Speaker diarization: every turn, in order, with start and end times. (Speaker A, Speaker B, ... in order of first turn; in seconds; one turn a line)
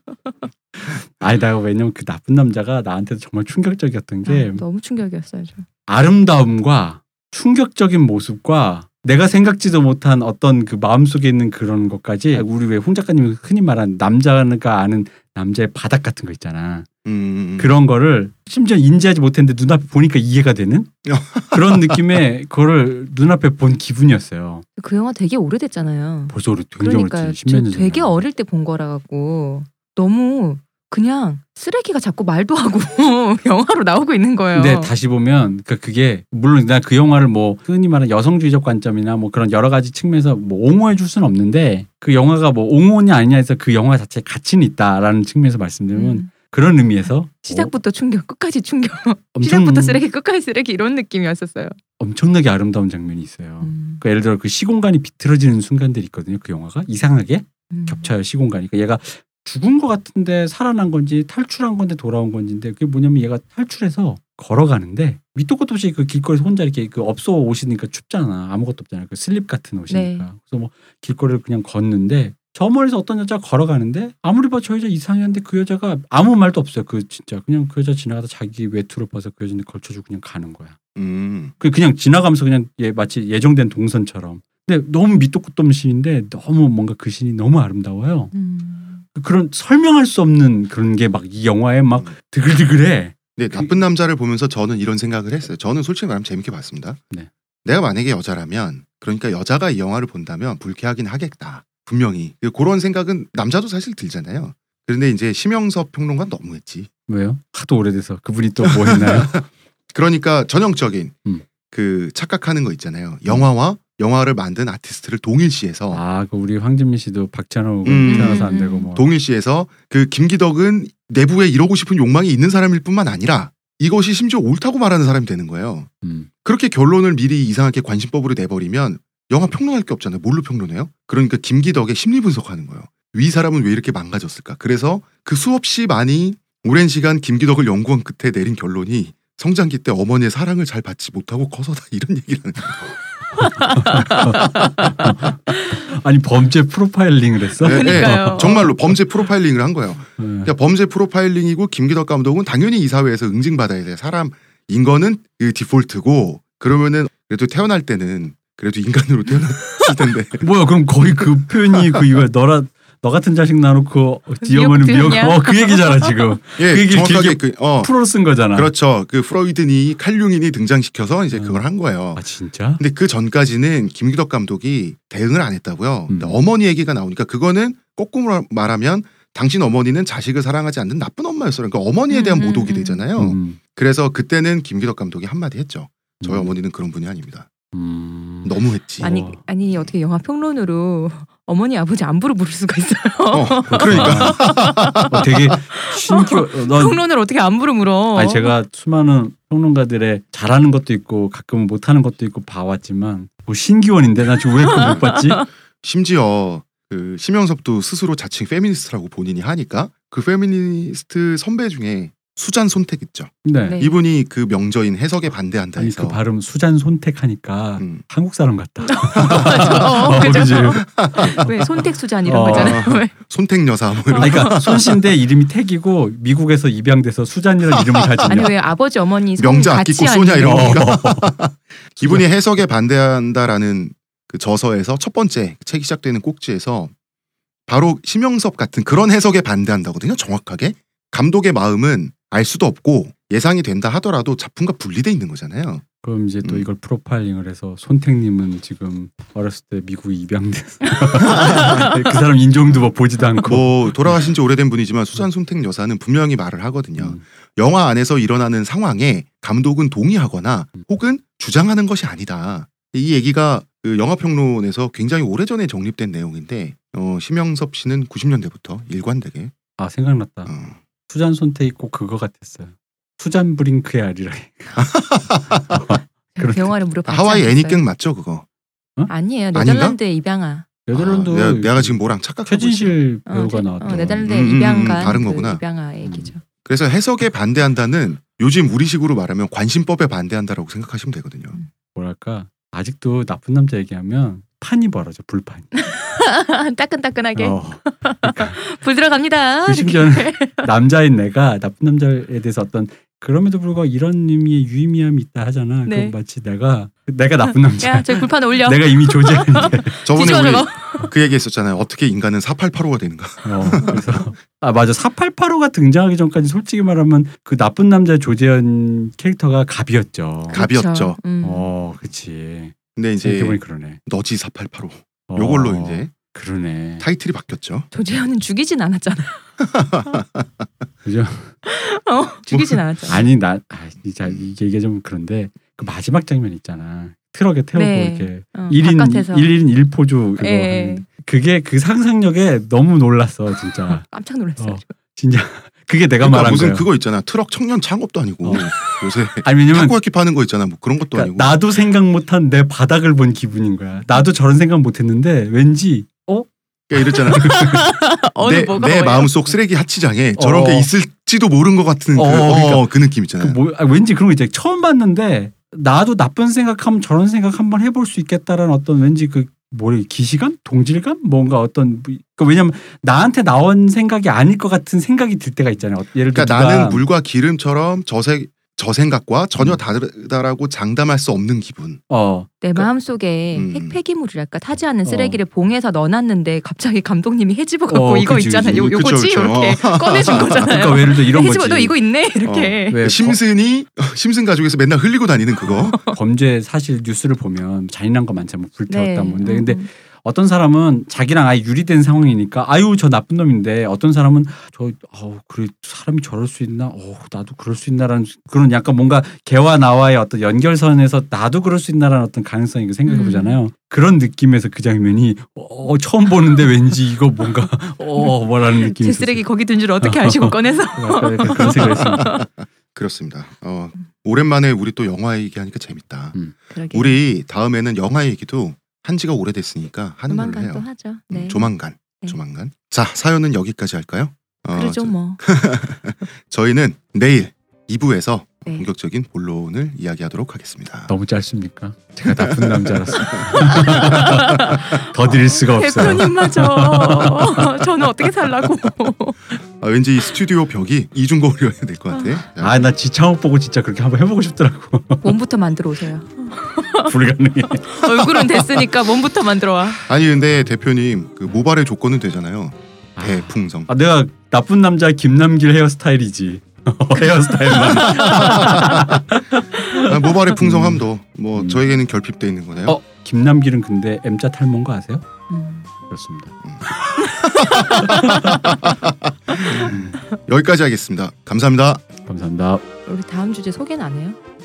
Speaker A: 0.7-4.6
Speaker B: 4.2-5.7
Speaker A: 5.9-16.9
Speaker C: 17.0-17.7
Speaker A: 17.6-24.6
Speaker C: 21.1-22.0
Speaker B: 24.8-34.9
Speaker A: 26.3-28.2
Speaker A: 34.5-47.7
Speaker B: 45.9-46.3
Speaker B: 47.4-51.8
Speaker A: 49.3-50.0
Speaker A: 52.0-80.8
Speaker B: 53.6-54.0
Speaker B: 57.7-58.1
Speaker B: 69.9-70.3
Speaker C: 80.9-81.5
Speaker A: 81.6-88.3
Speaker B: 88.3-89.0
Speaker A: 89.1-93.7
Speaker C: 93.3-97.0
Speaker C: 97.6-106.9
Speaker A: 107.1-109.4
Speaker C: 108.6-111.2
Speaker C: 111.7-116.0
Speaker A: 115.9-119.1
Speaker C: 117.8-125.9
Speaker B: 118.0-118.9
Speaker A: 126.0-126.3
Speaker C: 126.4-142.9
Speaker B: 143.3-145.2
Speaker A: 143.4-148.9
Speaker C: 144.0-144.9
Speaker B: 147.6-148.7
Speaker C: 147.6-160.4
Speaker A: 150.2-150.5
Speaker A: 160.4-168.7
Speaker C: 161.0-162.2
Speaker B: 164.4-166.4
Speaker C: 166.6-167.9
Speaker C: 168.5-172.2
Speaker A: 171.3-171.6
Speaker A: 172.1-172.8
Speaker C: 172.8-187.5
Speaker A: 176.1-176.4
Speaker B: 182.1-183.0
Speaker A: 183.2-183.6
Speaker A: 186.2-186.5
Speaker A: 187.7-189.4
Speaker C: 188.4-189.1
Speaker B: 189.0-198.5
Speaker C: 193.3-195.4
Speaker A: 193.7-194.4
Speaker A: 195.1-197.0
Speaker A: 198.1-205.4
Speaker B: 204.8-205.5
Speaker C: 205.8-216.2
Speaker A: 213.4-213.8
Speaker B: 213.7-213.9
Speaker A: 215.8-221.7
Speaker B: 218.9-223.2
Speaker C: 219.1-221.7
Speaker A: 222.2-222.9
Speaker C: 222.4-224.9
Speaker B: 224.1-224.6
Speaker A: 224.2-228.5
Speaker C: 227.8-228.4
Speaker B: 228.3-230.8
Speaker C: 229.4-236.9
Speaker A: 230.4-231.4
Speaker C: 237.7-245.8
Speaker A: 246.0-254.3
Speaker C: 251.2-251.8
Speaker C: 253.4-269.5
Speaker A: 257.0-257.2
Speaker A: 269.8-270.5
Speaker C: 270.5-270.8
Speaker A: 271.1-274.9
Speaker C: 274.8-275.8
Speaker A: 275.5-276.7
Speaker B: 276.3-277.8
Speaker C: 277.1-278.4
Speaker B: 279.1-280.6
Speaker C: 279.5-280.0
Speaker A: 280.9-285.2
Speaker C: 280.9-283.0
Speaker B: 283.2-286.4
Speaker C: 283.8-285.6
Speaker A: 286.0-286.3
Speaker C: 286.6-291.6
Speaker A: 291.9-295.7
Speaker B: 295.7-300.7
Speaker A: 297.4-298.6
Speaker A: 299.6-310.0
Speaker B: 305.9-306.1
Speaker B: 307.5-311.1
Speaker C: 310.0-314.1
Speaker A: 313.4-320.6
Speaker C: 320.5-321.2
Speaker B: 320.5-321.7
Speaker A: 321.4-324.0
Speaker C: 322.9-326.1
Speaker A: 325.3-327.1
Speaker C: 327.0-327.9
Speaker B: 327.9-329.5
Speaker C: 329.6-330.6
Speaker A: 331.0-331.5
Speaker B: 331.6-333.2
Speaker C: 332.5-333.1
Speaker A: 333.1-344.1
Speaker B: 337.7-339.5
Speaker B: 340.4-341.1
Speaker B: 344.0-344.9
Speaker A: 344.6-346.9
Speaker C: 346.2-351.6
Speaker A: 348.4-348.7
Speaker A: 349.4-350.0
Speaker A: 351.1-356.5
Speaker C: 356.9-357.7
Speaker B: 357.3-359.5
Speaker A: 357.3-357.8
Speaker C: 358.4-363.6
Speaker A: 360.4-360.9
Speaker A: 362.1-377.1
Speaker C: 376.3-382.0
Speaker A: 382.1-382.9
Speaker B: 382.6-393.0
Speaker C: 383.5-384.0
Speaker A: 385.0-385.4
Speaker A: 387.9-388.9
Speaker C: 388.6-390.9
Speaker A: 390.3-391.9
Speaker C: 392.4-396.0
Speaker A: 392.9-393.4
Speaker B: 395.8-396.1
Speaker A: 396.1-419.5
Speaker B: 398.9-399.9
Speaker B: 413.1-413.6
Speaker B: 418.2-422.4
Speaker A: 420.0-422.4
Speaker C: 421.5-426.4
Speaker B: 426.7-427.2
Speaker C: 426.9-441.1
Speaker B: 430.3-432.4
Speaker B: 434.7-435.4
Speaker A: 441.1-447.8
Speaker C: 442.3-444.8
Speaker B: 443.2-449.6
Speaker C: 449.8-452.8
Speaker B: 452.1-452.4
Speaker A: 452.6-455.4
Speaker B: 455.2-457.1
Speaker A: 457.0-458.4
Speaker B: 457.9-460.0
Speaker C: 460.1-463.9
Speaker A: 463.1-471.8
Speaker B: 467.8-468.7
Speaker C: 468.1-469.2
Speaker C: 470.0-473.0
Speaker A: 472.8-475.2
Speaker B: 475.5-475.9
Speaker A: 476.1-477.2
Speaker C: 477.4-479.9
Speaker B: 477.6-478.2
Speaker A: 477.8-478.6
Speaker B: 479.5-479.8
Speaker A: 479.8-480.2
Speaker C: 480.4-482.0
Speaker A: 482.2-482.8
Speaker B: 483.1-484.4